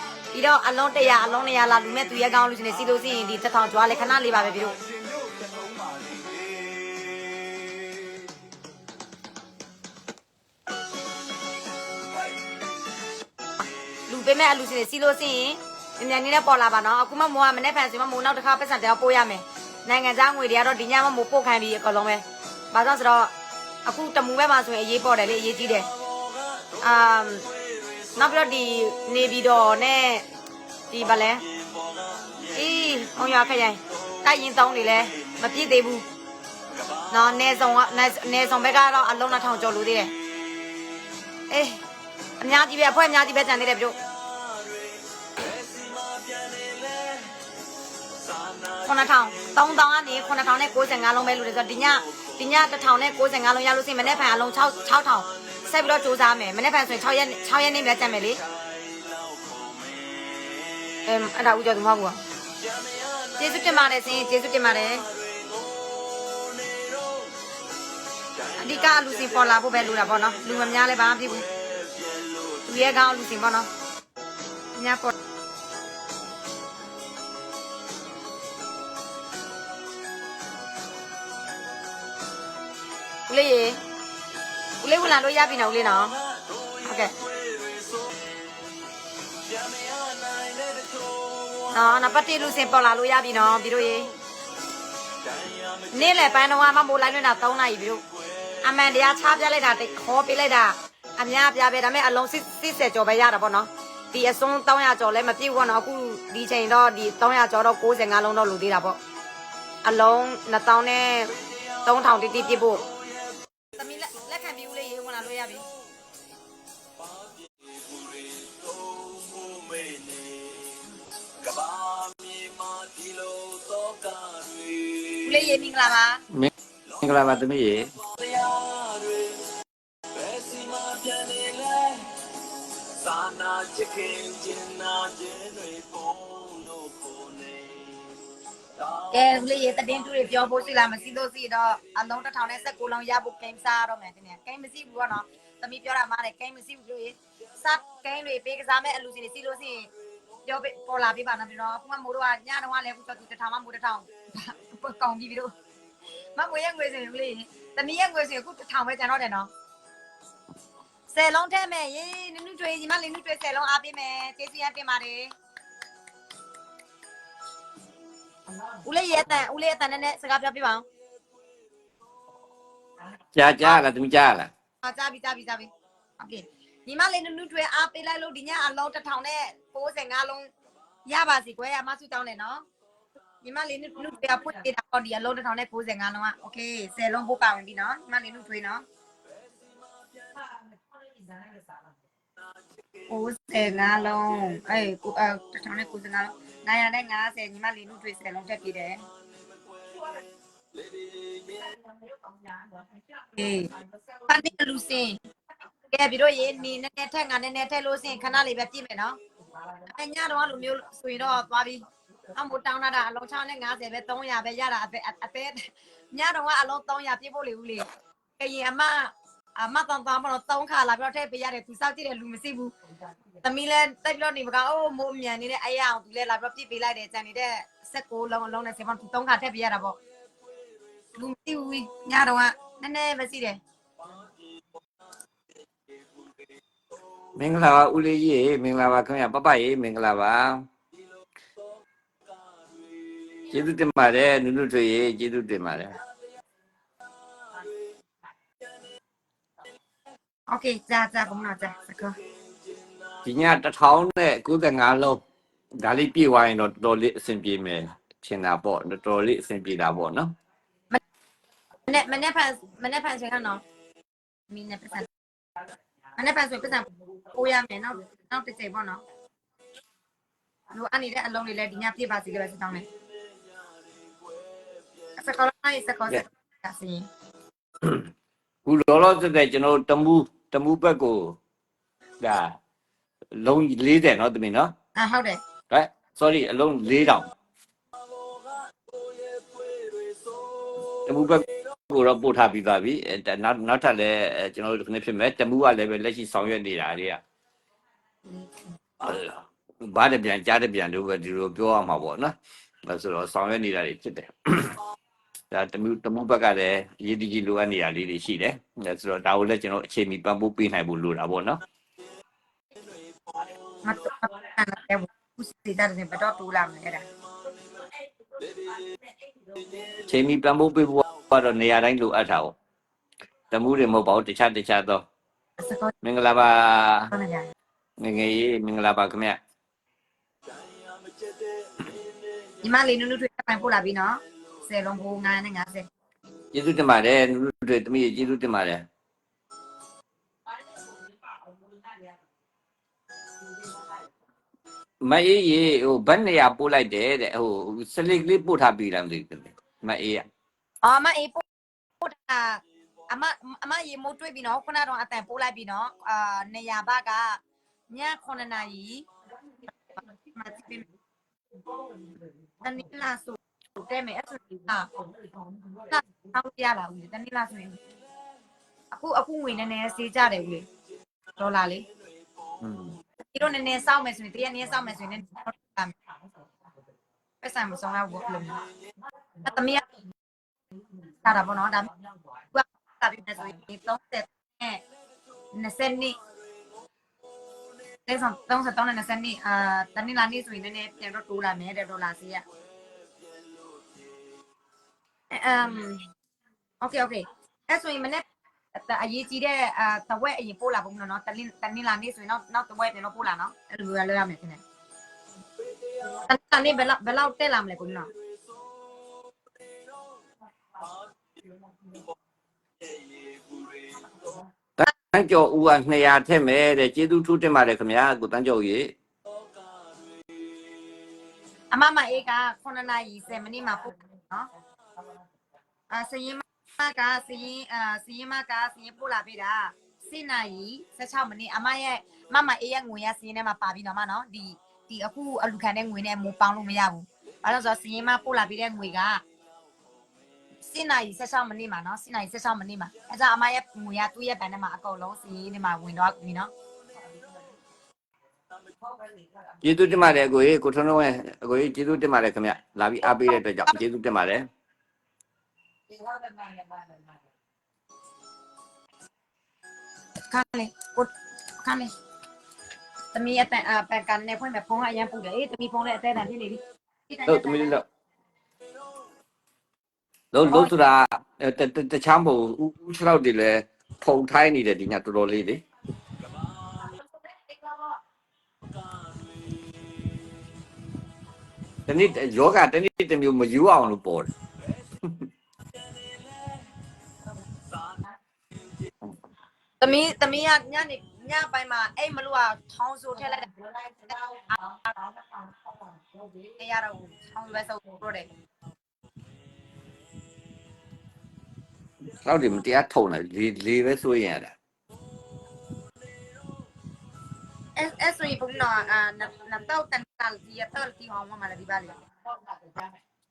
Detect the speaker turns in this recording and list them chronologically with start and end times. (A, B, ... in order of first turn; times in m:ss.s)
0:00.3-0:04.8 A
0:04.7-0:08.1 B
0:14.1-0:23.3 A
0:23.8-0:25.9 A
0:26.8-0:27.5 A
0:28.2-0:30.2 A
0:30.9-0:31.4 A
0:32.5-0:36.0 A
0:37.1-0:40.1 A
0:41.5-0:41.8 A
0:42.4-0:44.0 A
0:48.8-0:58.4 A
1:01.0-1:02.2 A
1:03.4-1:05.0 A
1:08.5-1:11.5 A
1:12.6-1:13.7 A
1:14.7-1:15.1 A
1:23.3-1:23.8 A
1:24.8-1:26.2 A
1:26.7-1:27.1 A
1:31.7-1:34.1 A
1:35.9-1:38.0 A
1:38.6-1:49.0 A
1:49.8-1:52.9 A
1:53.7-1:55.6 A
2:05.1-2:06.2 A
2:06.3-2:07.9 C
2:19.0-2:29.9 A
2:30.4-2:35.5 A
2:36.4-2:39.5 A
2:41.1-2:45.3 A
2:48.8-2:50.8 A
2:53.3-2:54.5 C
2:54.8-3:00.5 A
3:01.0-3:02.6 A
3:03.4-3:08.8 A
3:13.1-3:19.0 A
3:23.3-3:23.7 A
3:24.2-3:25.2 A
3:25.9-3:29.2 A
3:29.8-3:42.7 A
3:43.4-3:50.0 A
3:51.1-3:53.6 A
3:57.3-4:00.7 C
4:03.5-4:06.0 C
4:10.5-4:12.2 A
4:13.2-4:15.2 C
4:15.8-4:20.3 C
4:21.9-4:23.6 A
4:24.5-4:25.1 A
4:26.2-4:29.0 A
4:30.7-4:32.8 A
4:35.2-4:37.1 A
4:37.8-4:38.1 C
4:38.6-4:41.4 C
4:42.2-4:42.6 C
4:43.3-4:44.7 C
4:45.0-4:45.4 A
4:45.7-4:47.3 C
4:51.0-4:57.2 C
4:58.3-4:58.5 A
4:59.0-5:02.3 C
5:02.8-5:04.8 C
5:05.5-5:11.6 C
5:13.8-5:17.1 A
5:20.0-5:22.5 C
5:23.5-5:25.0 C
5:25.6-5:25.9 A
5:26.0-5:27.1 C
5:27.1-5:27.5 A
5:28.0-5:29.4 C
5:32.6-5:35.9 A
5:36.5-5:38.8 C
5:45.0-5:50.2 C
5:50.8-5:51.4 A
5:52.0-5:59.1 A
6:00.3-6:00.8 A
6:02.6-6:04.9 A
6:05.8-6:07.8 A
6:08.9-6:10.7 A
6:11.4-6:11.9 A
6:12.6-6:13.0 C
6:13.3-6:15.9 A
6:17.4-6:18.6 A
6:19.4-6:19.8 A
6:21.2-6:21.9 A
6:22.5-6:24.8 A
6:25.5-6:26.2 A
6:28.1-6:32.4 A
6:35.3-6:36.0 A
6:36.8-6:44.6 A
6:46.0-6:48.1 A
6:54.8-6:58.9 C
7:01.7-7:04.5 A
7:05.9-7:19.2 A
7:20.6-7:26.5 A
7:29.6-7:34.5 C
7:35.9-7:36.6 A
7:40.3-7:41.9 A
7:43.1-7:47.8 A
7:47.2-7:47.8 C
7:50.3-7:55.6 C
8:01.9-8:04.3 C
8:05.0-8:05.3 C
8:09.8-8:14.9 A
8:16.4-8:18.3 A
8:22.2-8:24.5 C
8:27.8-8:32.0 A